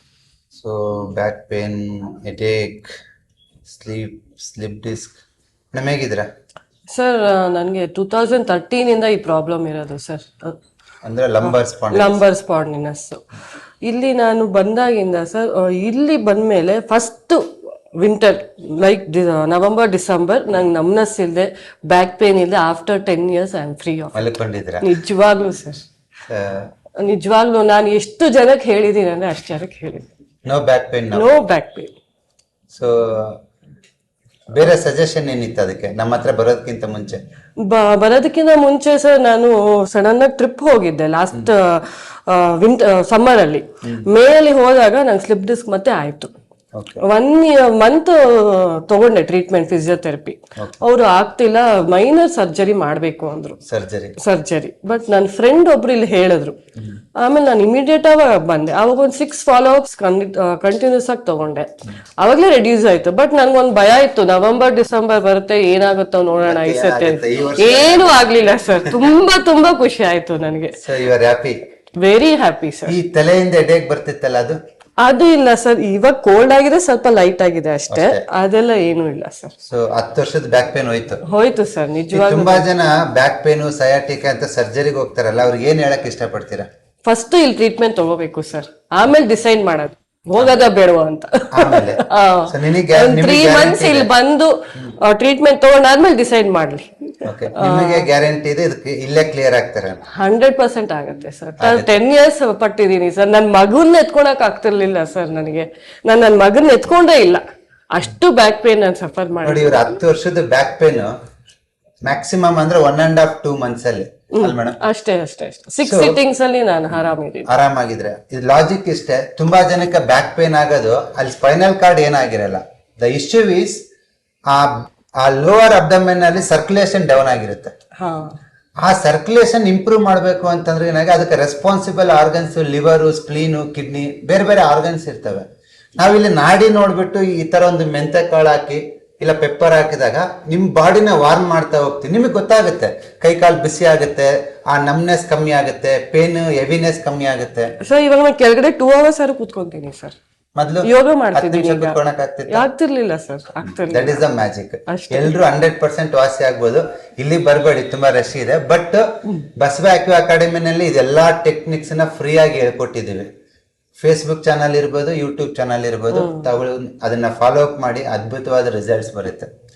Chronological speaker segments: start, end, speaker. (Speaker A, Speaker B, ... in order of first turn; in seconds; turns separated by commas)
Speaker A: 0.5-2.9, Speaker A: 3.6-5.2, Speaker A: 5.7-6.2, Speaker B: 6.9-10.6, Speaker A: 11.0-12.2, Speaker B: 11.4-13.2, Speaker B: 13.8-17.4, Speaker B: 18.0-24.2, Speaker A: 24.1-24.8, Speaker B: 24.8-25.8, Speaker A: 26.3-26.7, Speaker B: 27.0-30.1, Speaker A: 30.5-31.3, Speaker B: 31.1-31.9, Speaker A: 32.7-33.4, Speaker A: 34.5-37.2, Speaker B: 37.6-46.3, Speaker A: 46.7-47.0, Speaker B: 47.0-53.6, Speaker A: 53.7-54.1, Speaker B: 54.2-56.6, Speaker B: 57.2-61.7, Speaker B: 62.2-70.8, Speaker A: 66.4-68.4, Speaker A: 70.8-71.5, Speaker B: 72.0-73.0, Speaker A: 72.8-74.5, Speaker B: 75.0-79.5, Speaker A: 77.9-78.2, Speaker A: 79.6-81.2, Speaker B: 81.2-82.7, Speaker A: 82.1-86.7, Speaker B: 87.0-98.1, Speaker A: 91.5-94.1, Speaker A: 97.2-100.0, Speaker B: 100.1-110.0, Speaker A: 101.6-101.9, Speaker A: 109.4-111.1, Speaker A: 112.0-114.8, Speaker B: 114.3-117.5, Speaker A: 115.8-116.2, Speaker A: 117.5-123.8, Speaker A: 124.5-127.7, Speaker B: 128.0-128.3, Speaker A: 128.8-135.4, Speaker A: 136.0-147.7, Speaker B: 147.8-150.1, Speaker A: 150.6-152.7, Speaker B: 150.8-152.0, Speaker B: 152.5-154.2, Speaker A: 153.9-159.0, Speaker B: 154.9-155.3, Speaker A: 159.6-163.2, Speaker A: 164.0-169.5, Speaker B: 166.1-166.5